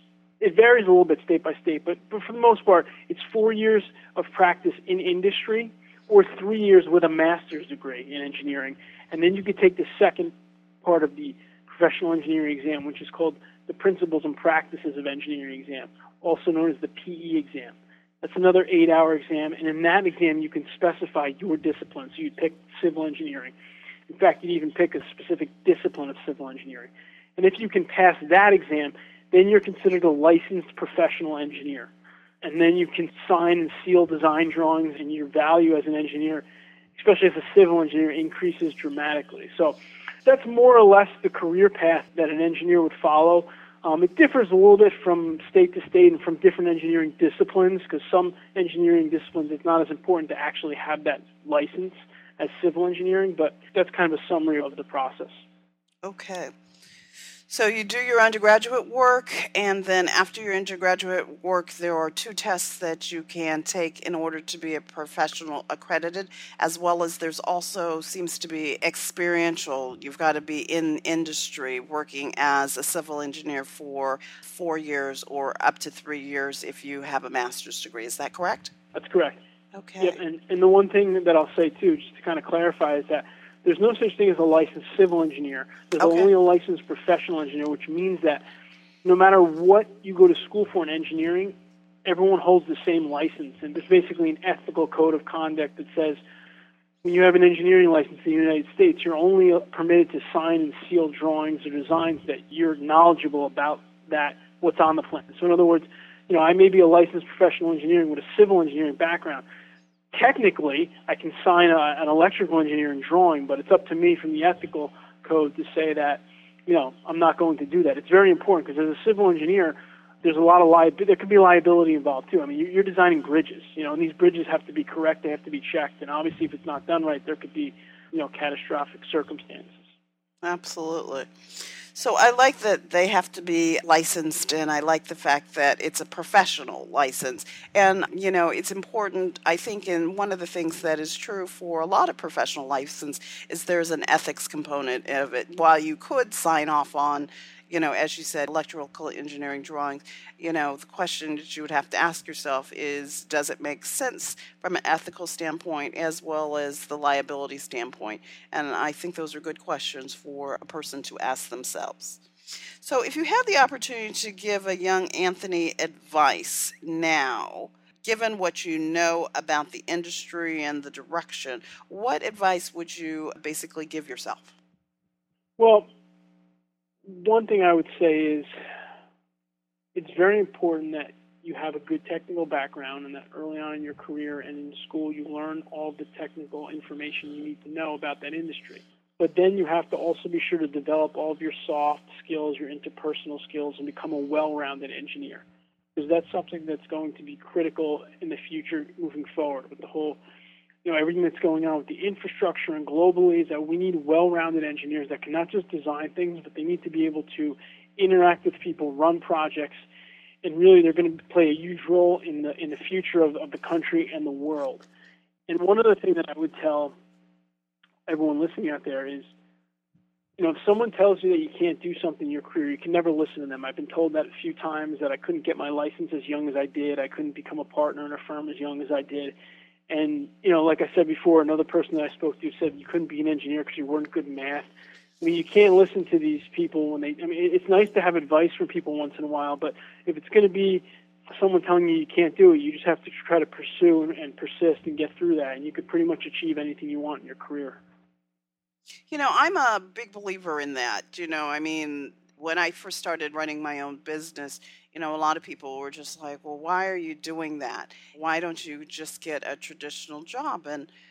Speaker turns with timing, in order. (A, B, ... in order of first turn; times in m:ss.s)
0:00.4-0:23.5 A
0:24.1-0:31.9 A
0:32.4-0:36.4 A
0:37.0-0:55.4 A
0:56.0-0:56.5 B
0:57.5-1:18.7 B
1:18.9-1:19.4 A
1:19.7-1:20.2 B
1:20.0-1:28.4 A
1:26.0-1:26.3 B
1:29.0-1:31.5 A
1:32.0-1:36.2 A
1:37.0-1:49.4 A
1:50.1-2:09.8 A
2:10.4-2:42.2 B
2:42.8-2:54.5 B
2:55.6-2:55.9 A
2:57.0-2:58.5 A
2:59.9-3:15.4 A
3:16.0-3:20.2 A
3:20.8-3:29.8 A
3:30.4-3:34.8 A
3:35.5-3:36.9 A
3:38.1-3:39.3 A
3:40.4-3:49.3 A
3:49.9-3:54.7 A
3:55.2-4:07.8 A
4:09.1-4:20.9 B